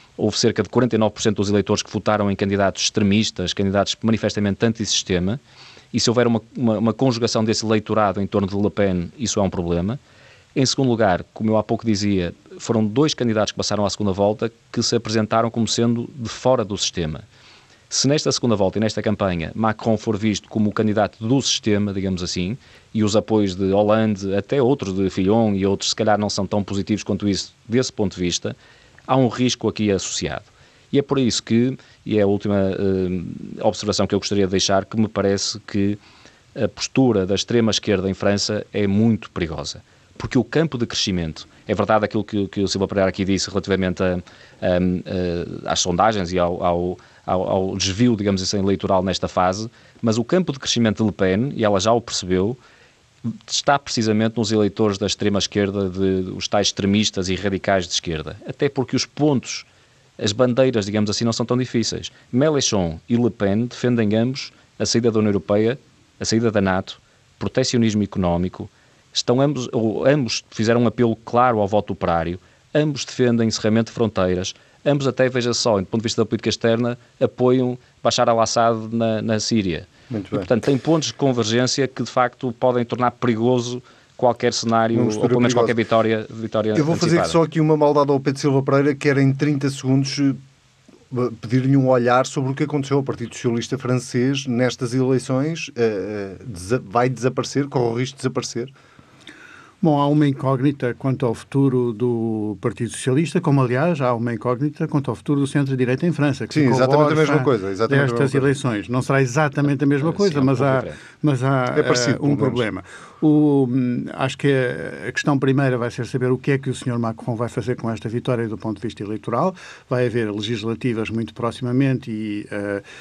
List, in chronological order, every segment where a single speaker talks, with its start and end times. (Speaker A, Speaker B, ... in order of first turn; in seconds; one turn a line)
Speaker A: 0.2-5.4
Speaker A: 5.9-10.0
Speaker A: 10.6-17.2
Speaker A: 17.9-28.6
Speaker A: 29.1-36.0
Speaker A: 36.5-52.6
Speaker A: 53.2-59.7
Speaker A: 60.2-87.4
Speaker B: 80.1-80.5
Speaker B: 84.9-85.8
Speaker B: 86.8-90.4
Speaker B: 91.1-98.7
Speaker C: 99.8-122.8
Speaker B: 106.5-108.5
Speaker A: 110.0-111.0
Speaker B: 111.7-112.7